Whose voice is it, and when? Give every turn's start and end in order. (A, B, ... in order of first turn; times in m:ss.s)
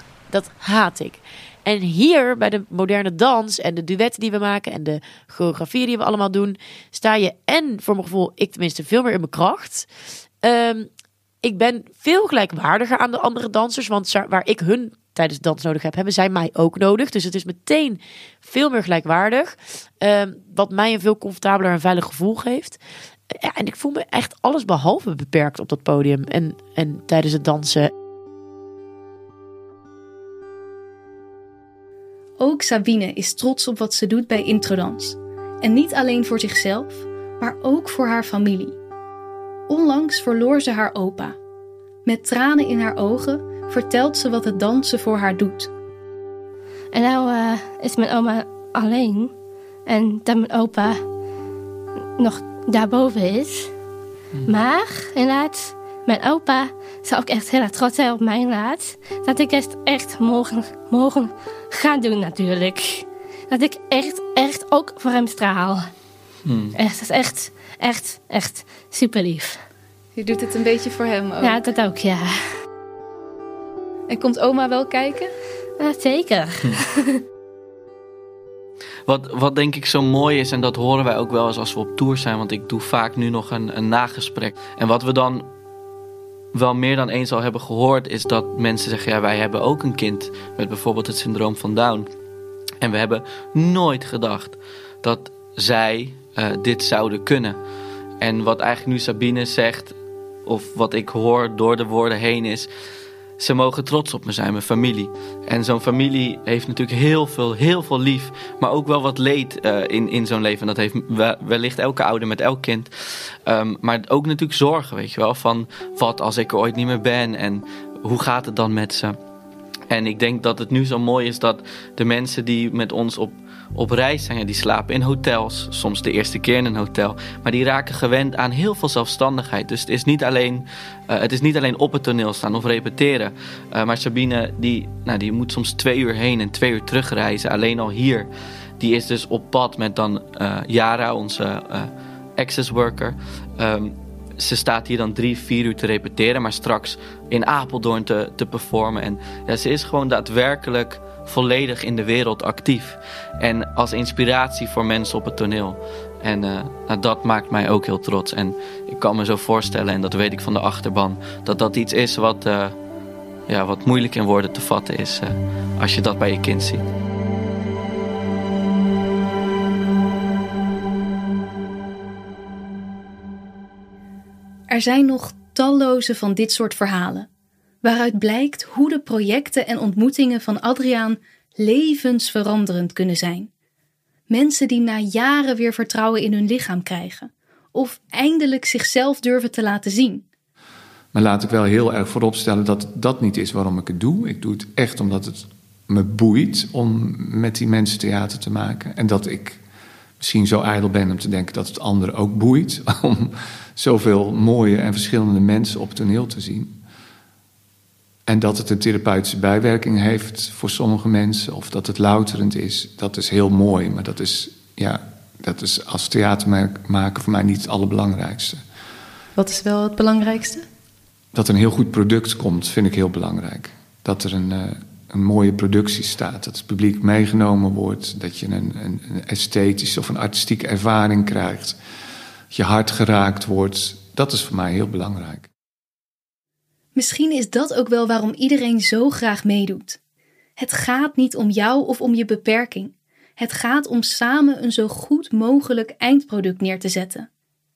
0:00.3-0:09.9 A
0:10.4-0:10.9 A
0:11.4-0:22.8 A
0:23.4-0:27.9 A
0:32.4-0:38.8 B
0:39.7-0:41.4 B
0:42.0-0:45.7 B
0:46.9-0:49.3 C
0:49.9-0:51.0 C
0:52.2-0:53.7 C
0:54.5-1:05.9 C
1:06.5-1:06.8 D
1:06.8-1:09.6 C
1:10.2-1:11.6 B
1:11.4-1:12.3 C
1:14.1-1:15.3 B
1:15.8-1:17.2 C
1:19.1-1:25.5 D
1:26.5-1:32.1 D
1:32.8-1:37.6 D
1:38.2-1:42.7 D
1:43.4-1:52.9 D
1:53.5-1:59.2 D
1:59.9-2:18.3 D
2:18.8-2:42.8 D
2:43.5-2:46.8 D
2:54.7-2:57.3 B
2:57.8-3:03.5 B
3:04.3-3:10.2 B
3:11.1-3:19.6 E
3:20.2-3:26.8 E
3:28.3-3:38.6 E
3:39.4-3:40.6 B
3:41.3-3:51.8 E
3:52.5-3:55.5 E
3:57.0-4:00.0 B
4:00.6-4:07.3 B